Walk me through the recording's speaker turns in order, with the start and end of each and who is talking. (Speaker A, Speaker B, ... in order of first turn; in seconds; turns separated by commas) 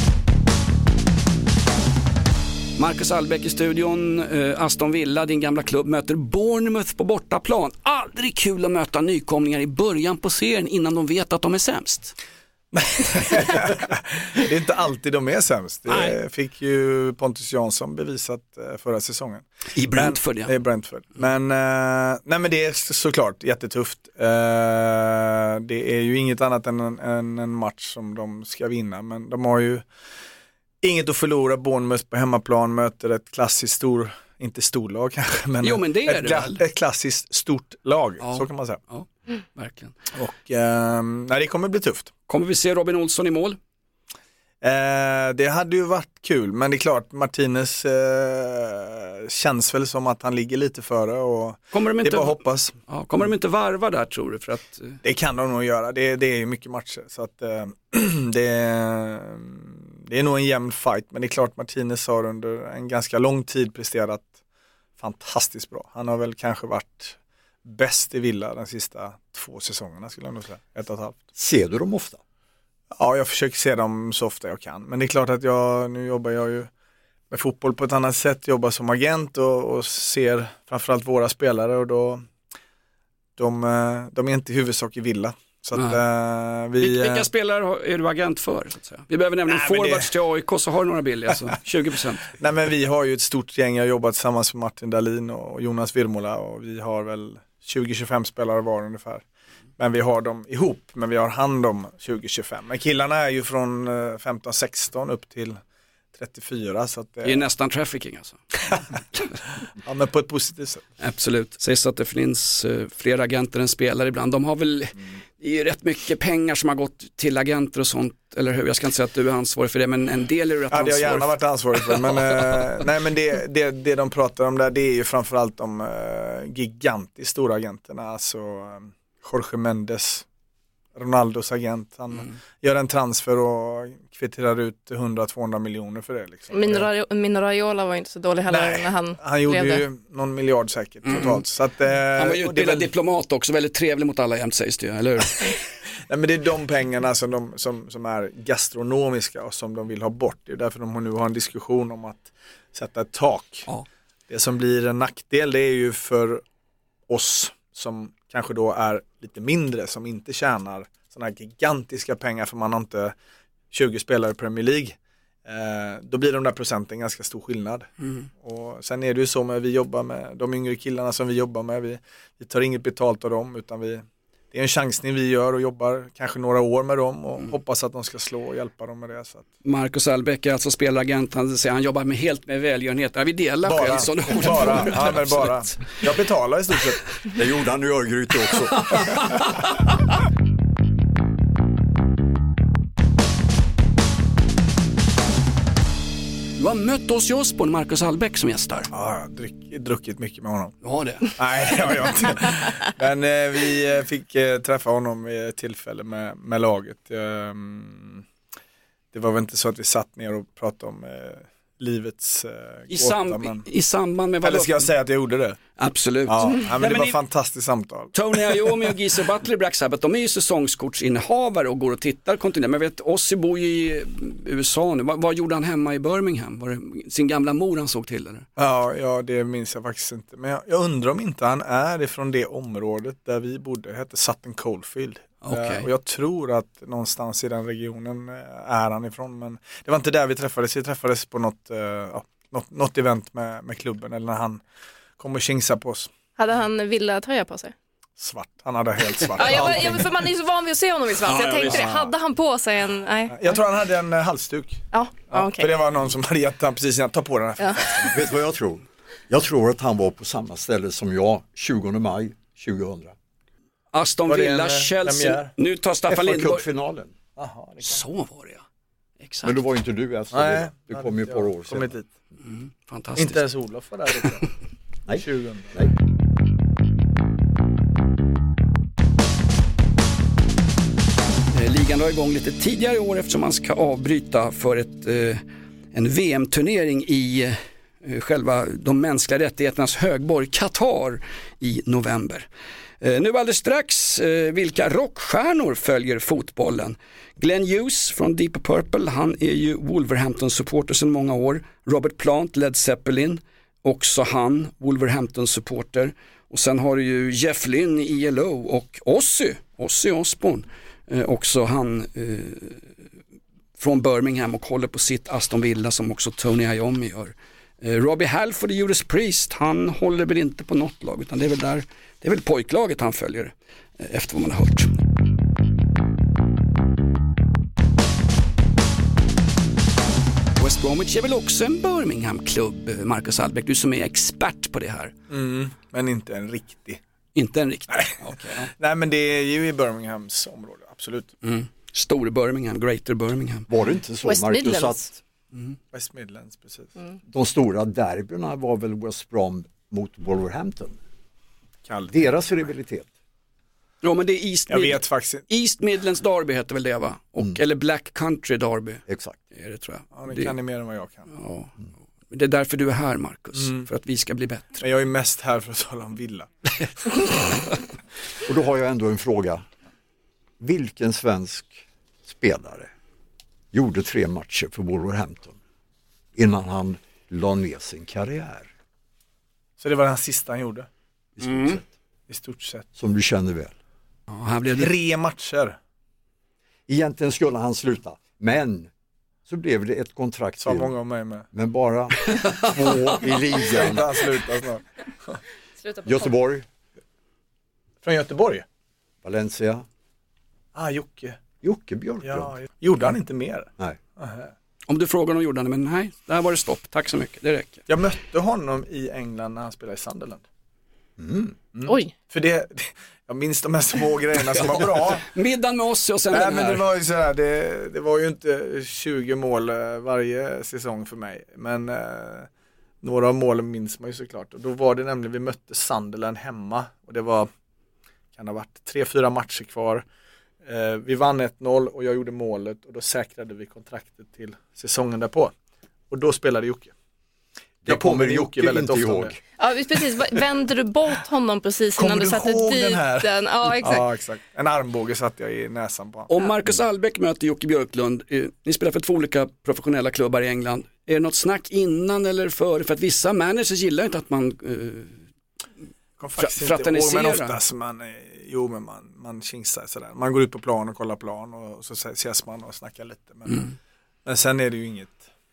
Speaker A: 2.8-12.1, Speaker B: 12.7-29.8, Speaker A: 15.9-16.1, Speaker A: 19.7-20.5, Speaker B: 30.8-38.8, Speaker A: 35.6-36.6, Speaker A: 38.2-39.9, Speaker B: 40.1-42.1, Speaker A: 42.3-43.6, Speaker B: 44.6-52.7, Speaker A: 51.7-55.0, Speaker B: 55.0-64.3, Speaker B: 65.0-71.2, Speaker C: 71.3-72.2, Speaker B: 72.9-76.7, Speaker B: 77.3-82.3, Speaker B: 83.4-87.2, Speaker A: 85.7-86.0, Speaker A: 86.8-92.3, Speaker B: 89.5-90.1, Speaker B: 92.4-99.2, Speaker B: 99.8-105.6, Speaker B: 106.1-107.5, Speaker A: 107.2-108.4, Speaker B: 109.8-110.8, Speaker A: 111.0-121.3, Speaker B: 120.7-130.2, Speaker A: 121.9-122.6, Speaker B: 130.9-136.9, Speaker D: 136.5-139.8, Speaker B: 138.5-142.9, Speaker A: 141.1-141.4, Speaker A: 142.1-145.6, Speaker B: 146.1-153.7, Speaker B: 154.3-156.4, Speaker B: 157.1-163.1, Speaker B: 163.7-179.5, Speaker A: 168.0-168.3, Speaker A: 179.6-185.9, Speaker B: 183.6-187.1, Speaker C: 187.3-189.1, Speaker A: 188.9-189.2, Speaker A: 196.6-198.9, Speaker B: 198.9-200.7, Speaker A: 200.8-201.3, Speaker B: 201.3-208.2, Speaker B: 209.1-213.6, Speaker A: 212.9-214.9, Speaker B: 214.4-215.6, Speaker A: 215.8-217.2, Speaker B: 216.2-218.9, Speaker A: 218.1-228.5, Speaker B: 228.6-244.6, Speaker A: 235.4-235.9, Speaker B: 245.2-246.1, Speaker D: 246.4-247.7, Speaker B: 248.2-250.2, Speaker D: 249.3-253.4, Speaker A: 249.4-249.7, Speaker B: 251.3-252.1, Speaker A: 251.4-251.8, Speaker B: 253.3-258.2, Speaker D: 254.9-255.7, Speaker C: 258.1-263.1, Speaker A: 263.9-266.6, Speaker B: 264.3-265.5, Speaker C: 266.1-267.1, Speaker B: 267.4-268.0, Speaker A: 267.8-268.6, Speaker A: 269.2-269.5, Speaker C: 269.4-271.9, Speaker B: 270.3-272.1, Speaker A: 272.5-273.4, Speaker B: 273.1-274.5, Speaker C: 275.1-275.9, Speaker B: 275.1-275.8, Speaker A: 281.5-285.4, Speaker A: 285.9-292.5, Speaker A: 293.0-312.8, Speaker A: 313.8-324.9, Speaker A: 330.6-335.1, Speaker B: 335.3-337.0, Speaker A: 337.3-338.7, Speaker B: 337.9-341.3, Speaker A: 341.4-343.7, Speaker C: 343.7-345.1, Speaker D: 344.2-345.1, Speaker B: 345.9-346.9, Speaker C: 347.3-351.0, Speaker B: 351.9-352.3, Speaker C: 352.1-353.1, Speaker A: 354.0-360.5, Speaker B: 354.7-355.4, Speaker C: 359.1-359.4, Speaker B: 360.1-361.3, Speaker A: 361.3-361.7, Speaker A: 362.3-364.8, Speaker B: 363.6-363.9, Speaker B: 364.8-366.5, Speaker B: 367.0-367.3, Speaker C: 368.4-369.6, Speaker C: 370.6-372.9, Speaker C: 373.7-375.6, Speaker C: 376.3-378.7, Speaker B: 379.8-380.9, Speaker C: 381.4-381.9, Speaker A: 381.4-381.8, Speaker B: 382.3-382.9, Speaker C: 382.9-383.7, Speaker A: 384.3-384.9, Speaker B: 384.8-385.8, Speaker C: 386.9-388.9, Speaker C: 389.5-390.9, Speaker B: 390.6-391.5, Speaker C: 391.5-394.2, Speaker A: 392.3-392.7, Speaker B: 393.5-395.4, Speaker D: 395.8-396.2, Speaker C: 396.0-396.6, Speaker B: 398.0-398.6, Speaker C: 399.2-399.9, Speaker B: 400.7-401.4, Speaker C: 401.6-402.5, Speaker B: 402.2-404.5, Speaker A: 404.9-407.8, Speaker B: 407.9-410.4, Speaker C: 411.2-411.6, Speaker B: 411.7-415.2, Speaker D: 411.9-412.1, Speaker A: 414.5-416.9, Speaker B: 416.3-422.5, Speaker B: 423.0-427.5, Speaker B: 428.4-430.0, Speaker B: 430.6-435.5, Speaker B: 436.1-436.9, Speaker C: 437.8-439.4, Speaker B: 437.9-439.3, Speaker D: 439.6-444.1, Speaker B: 442.0-446.3, Speaker A: 446.3-455.2, Speaker B: 456.2-463.6, Speaker A: 456.4-457.6, Speaker B: 464.2-465.2